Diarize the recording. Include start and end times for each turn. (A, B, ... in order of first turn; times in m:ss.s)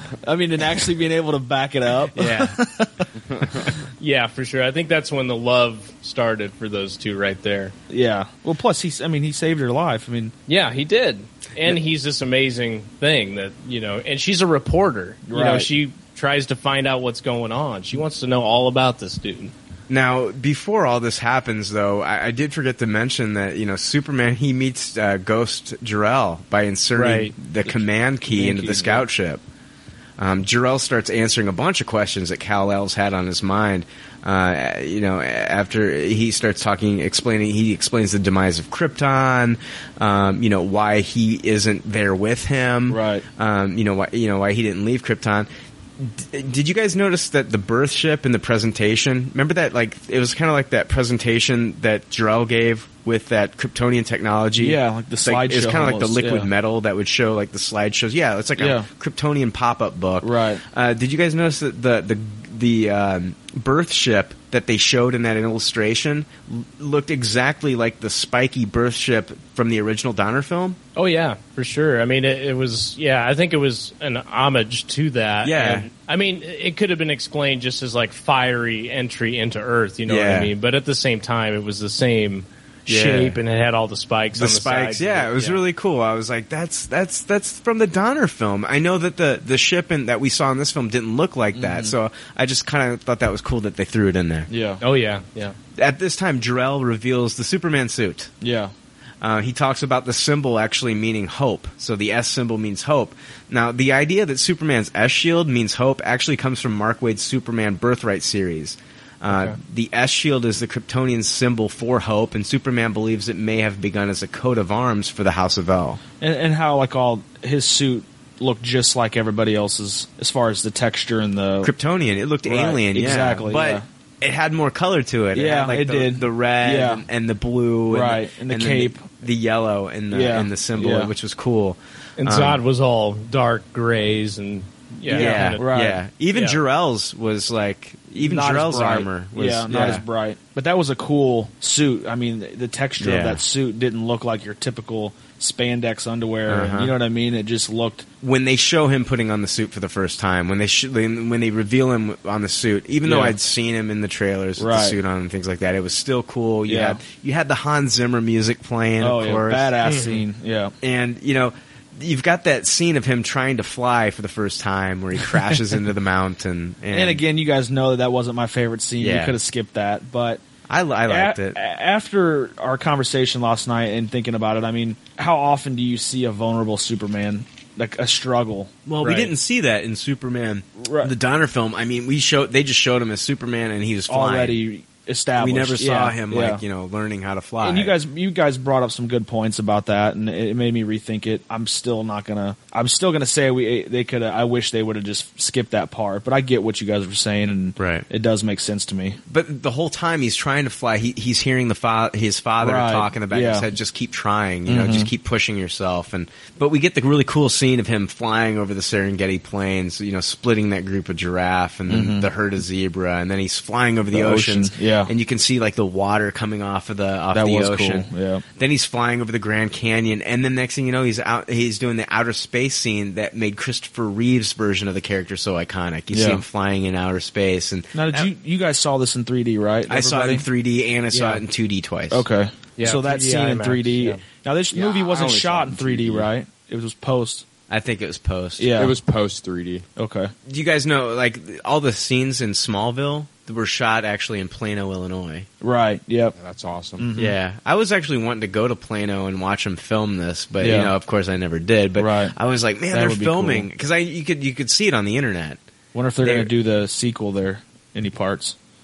0:00.2-0:03.7 A
0:02.1-0:02.6 B
0:04.0-0:07.7 C
0:07.9-0:10.3 A
0:10.5-0:19.5 C
0:15.3-0:15.7 A
0:19.9-0:29.4 B
0:27.0-0:27.4 C
0:27.7-0:29.1 A
0:30.2-0:45.5 B
0:42.9-0:43.2 A
0:46.0-1:10.8 B
0:54.6-0:56.5 A
0:58.6-0:58.9 A
1:00.2-1:00.6 A
1:11.0-1:25.6 C
1:15.4-1:15.9 B
1:20.1-1:20.5 B
1:22.9-1:23.4 B
1:24.4-1:34.5 B
1:31.6-1:32.0 A
1:34.5-1:34.8 A
1:34.8-1:35.6 C
1:35.8-1:38.3 B
1:38.4-1:38.7 A
1:39.2-1:56.0 B
1:49.3-1:49.6 C
1:56.2-2:01.7 A
2:01.6-2:12.6 B
2:02.4-2:03.8 A
2:05.3-2:07.0 A
2:07.9-2:09.0 A
2:10.1-2:11.1 A
2:12.2-2:15.6 C
2:15.1-2:16.0 A
2:15.1-2:20.0 B
2:16.3-2:16.6 C
2:18.2-2:28.1 A
2:23.0-2:23.4 B
2:26.5-2:26.9 B
2:28.2-2:39.8 B
2:33.0-2:33.4 A
2:34.6-2:35.0 A
2:36.7-2:37.0 A
2:39.0-2:40.7 A
2:39.8-2:40.2 C
2:40.8-2:47.2 B
2:46.9-2:50.4 A
2:49.0-2:49.4 B
2:50.7-2:51.6 B
2:51.1-2:58.7 A
2:58.9-3:04.6 B
2:59.0-2:59.3 C
3:00.8-3:01.1 A
3:04.1-3:06.6 A
3:05.4-3:07.9 B
3:07.6-3:19.2 A
3:17.8-3:18.1 B
3:19.3-3:48.2 B
3:22.6-3:23.7 A
3:24.7-3:25.1 A
3:31.9-3:32.3 A
3:34.1-3:35.1 A
3:37.3-3:38.4 A
3:46.1-3:46.4 A
3:47.9-3:50.5 A
3:49.9-3:52.2 B
3:51.1-3:51.4 A
3:52.1-3:57.4 A
3:52.8-3:54.2 C
3:54.7-3:56.3 D
3:57.7-3:58.7 B
3:58.6-3:58.9 A
3:58.8-3:59.9 D
4:00.0-4:00.3 A
4:00.5-4:05.5 B
4:05.6-4:06.4 A
4:06.4-4:07.1 D
4:07.0-4:07.4 A
4:07.2-4:15.6 B
4:10.6-4:10.9 A
4:12.0-4:12.3 A
4:12.9-4:13.7 A
4:15.9-4:18.6 A
4:16.2-4:16.5 B